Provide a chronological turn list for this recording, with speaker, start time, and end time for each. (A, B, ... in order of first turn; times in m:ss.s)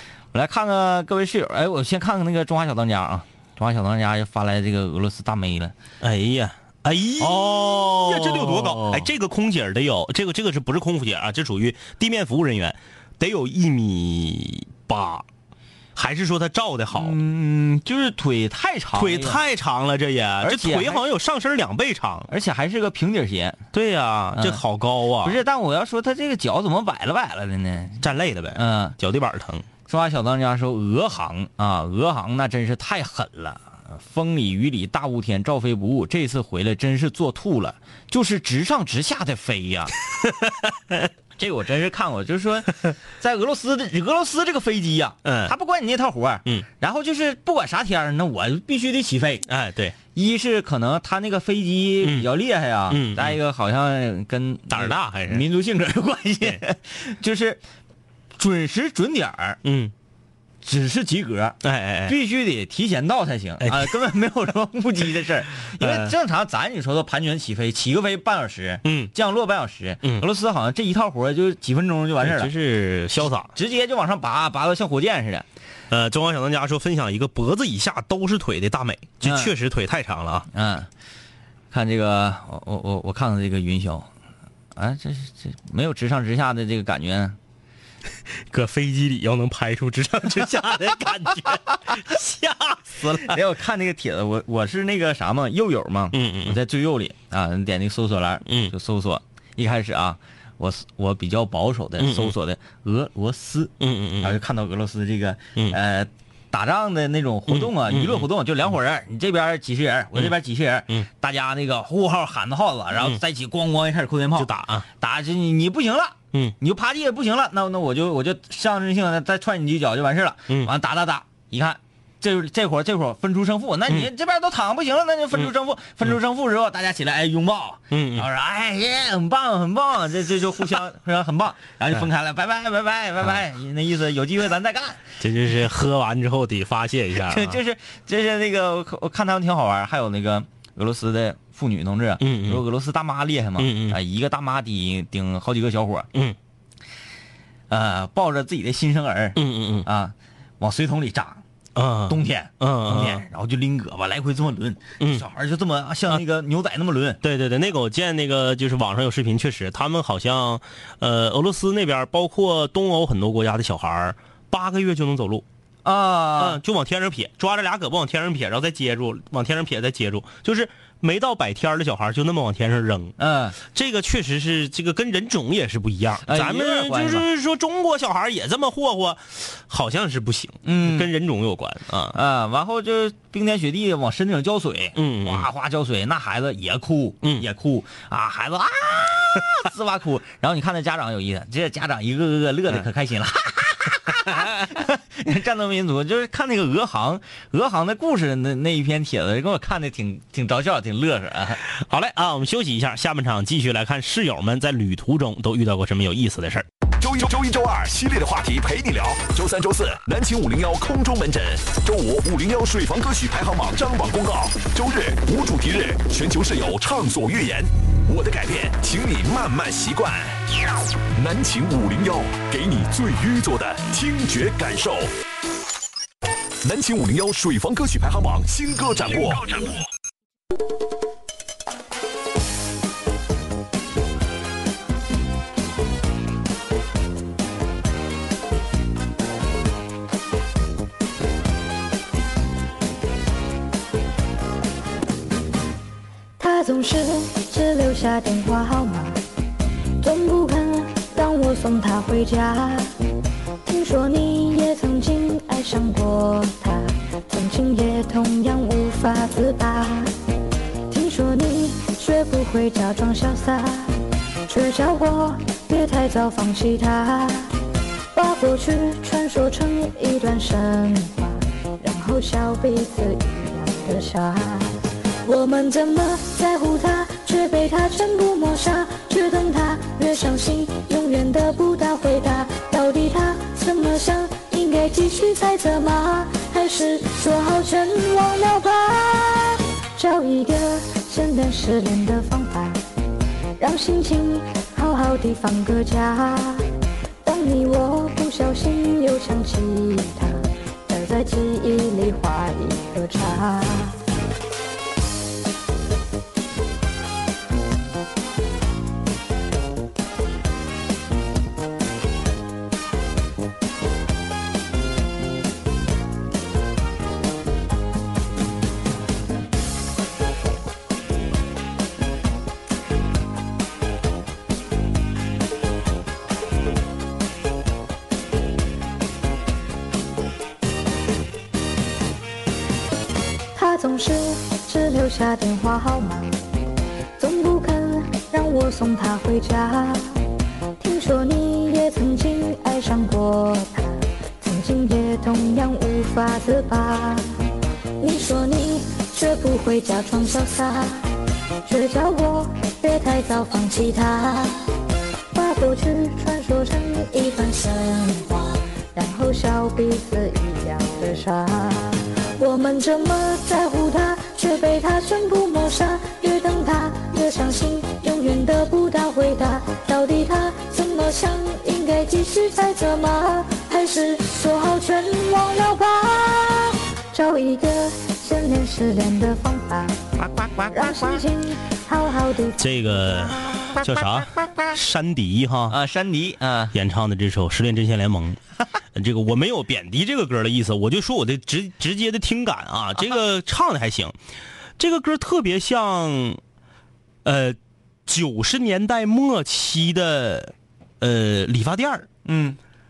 0:00.3-0:05.7 A
0:06.0-0:15.2 B
0:07.2-0:09.1 A
0:15.9-0:17.2 B
0:16.9-0:19.4 A
0:18.9-0:22.3 B
0:20.4-0:21.0 A
0:22.3-0:23.6 A
0:23.7-0:25.4 B
0:24.3-0:24.6 A
0:25.2-0:29.0 A
0:28.0-0:29.6 B
0:29.9-0:39.9 A
0:40.2-0:41.0 B
0:41.4-0:49.4 A
0:45.2-0:45.5 B
0:49.4-0:50.0 B
0:50.1-0:57.6 A
0:52.0-0:52.3 B
0:52.9-0:53.4 B
0:54.7-0:55.4 B
0:58.4-0:59.6 A
0:59.6-0:59.9 B
1:00.6-1:12.5 A
1:01.6-1:02.2 B
1:03.6-1:03.9 B
1:05.6-1:06.1 B
1:08.8-1:09.1 B
1:12.2-1:13.5 B
1:13.5-1:15.4 A
1:15.9-1:20.5 B
1:19.2-1:19.5 A
1:20.5-1:20.9 A
1:21.7-1:24.1 A
1:24.8-1:27.4 A
1:28.3-1:33.4 B
1:33.0-2:15.0 A
1:36.1-1:36.6 B
1:38.4-1:38.7 B
1:42.0-1:42.3 B
1:43.8-1:44.4 B
1:47.5-1:48.3 B
1:54.3-1:54.8 B
2:07.9-2:08.3 B
2:15.2-2:17.6 B
2:17.2-2:26.1 A
2:22.2-2:22.6 B
2:23.6-2:24.0 B
2:27.7-2:31.4 A
2:29.4-2:29.9 B
2:31.7-2:33.2 B
2:32.1-2:37.2 A
2:37.2-2:45.4 B
2:45.8-2:46.6 A
2:46.4-3:02.2 B
2:53.2-2:53.6 A
2:56.2-2:57.2 A
3:00.6-3:01.1 A
3:02.1-3:21.6 A
3:05.0-3:05.5 B
3:07.2-3:07.5 B
3:14.2-3:14.6 B
3:21.7-3:26.7 B
3:27.0-3:40.4 C
3:41.1-3:45.1 C
3:46.6-3:49.8 C
4:06.4-4:09.2 D
4:10.0-4:12.9 D
4:13.6-4:20.1 D
4:20.9-4:27.5 D
4:28.1-4:52.8 D
4:53.6-4:56.6 D
4:57.2-5:04.0 D
5:33.5-5:36.3 D
5:37.2-5:40.0 D
5:40.8-5:47.2 D
5:48.0-5:51.0 D
5:51.6-5:54.6 D
5:55.3-6:20.0 D
6:20.2-6:21.2 A
6:20.7-6:23.2 D
6:22.6-6:25.8 B
6:23.5-6:24.7 A
6:25.7-6:26.7 A
6:26.7-6:28.4 B
6:28.9-6:34.1 B
6:34.8-6:36.4 B
6:37.2-6:42.1 B
6:42.2-6:42.6 A